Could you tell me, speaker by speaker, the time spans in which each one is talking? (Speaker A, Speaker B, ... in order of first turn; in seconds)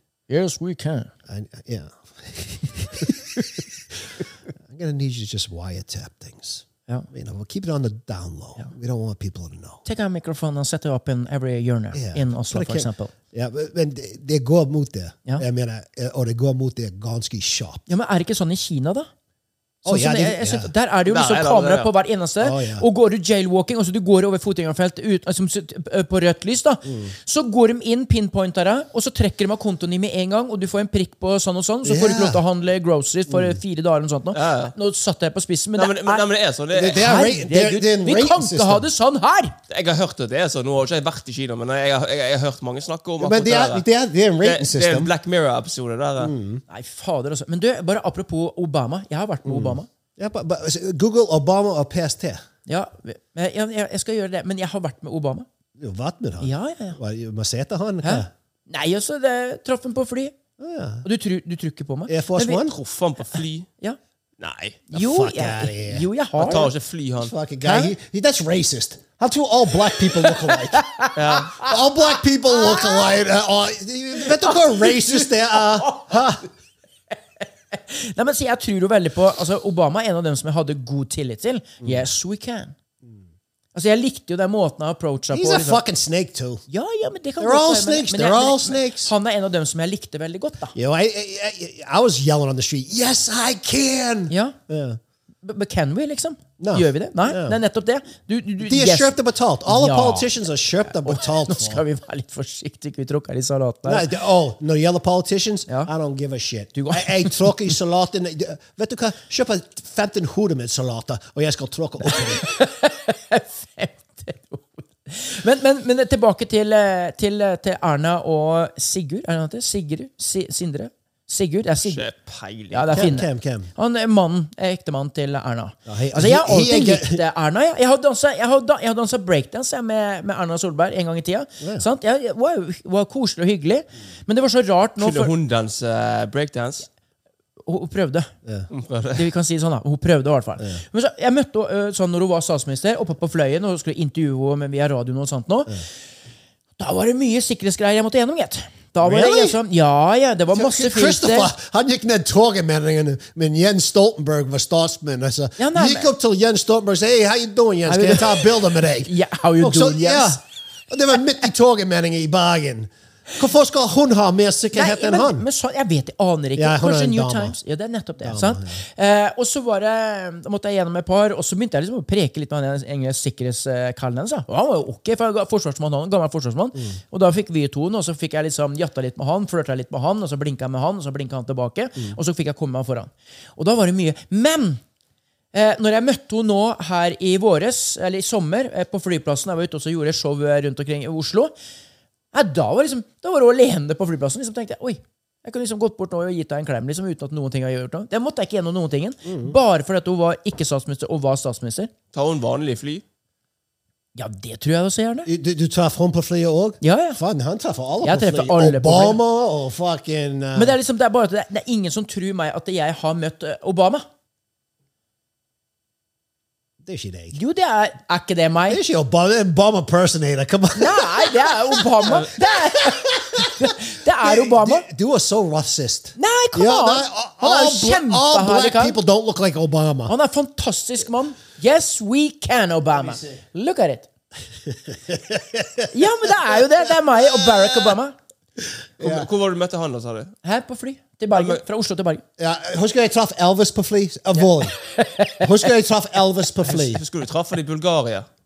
Speaker A: 0.3-1.1, 9.8-13.1, 17.9-19.1, 19.9-36.3, 36.9-39.5, 46.7-49.9, 52.7-55.5, 56.4-57.0, 58.0-60.4, 61.0-62.6, 64.9-66.7, 67.6-67.9, 70.3-71.7, 72.5-73.0, 74.4-76.3, 77.1-82.7, 83.7-85.8, 86.7-90.7, 94.3-94.5, 95.4-99.1, 99.7-100.3, 100.9-104.0, 106.7-107.7, 112.0-122.0, 122.7-135.3, 137.7-138.3, 139.1-145.8, 146.8-151.5, 155.6-156.1, 157.9-160.4, 164.7-184.8, 185.5-191.5, 192.3-201.9, 204.1-205.3, 206.8-207.2, 208.0-209.2, 210.5-214.0, 217.3-218.8, 220.8-224.8, 226.2-228.9, 230.1-234.1, 235.9-238.1, 240.4-242.2, 244.9-245.5
Speaker B: 1.3-3.3, 4.7-9.8, 11.9-17.8, 19.8-20.7, 22.4-22.9, 26.9-27.1, 31.8-32.4, 33.3-33.6, 36.7-38.9, 43.2-45.1, 46.2-46.6, 49.4-52.4, 55.8-58.3, 60.6-61.0, 62.1-62.8, 64.9-66.0, 67.2-70.8, 71.6-76.4, 85.3-86.6, 87.4-89.1, 90.7-95.0, 96.6-97.6, 98.6-101.8, 103.8-112.4, 122.9-123.7, 125.9-127.2, 131.6-131.8, 149.0-149.6, 150.5-165.5, 166.6-167.6, 168.2-168.8, 199.2-199.6, 205.2-210.8, 216.8-217.3, 218.7-230.1, 233.0-233.2, 234.7-235.9, 237.2-237.9, 239.0-239.3, 242.4-244.8, 245.4-247.0
Speaker C: 21.1-21.9, 34.3-34.7, 35.7-37.0, 39.7-43.9, 44.4-46.3, 62.7-63.7, 64.4-64.8, 66.4-67.3, 71.2-71.6, 121.8-123.1, 135.0-136.9, 138.7-139.2, 202.1-203.0, 239.0-240.3, 241.3-241.6, 246.6-248.3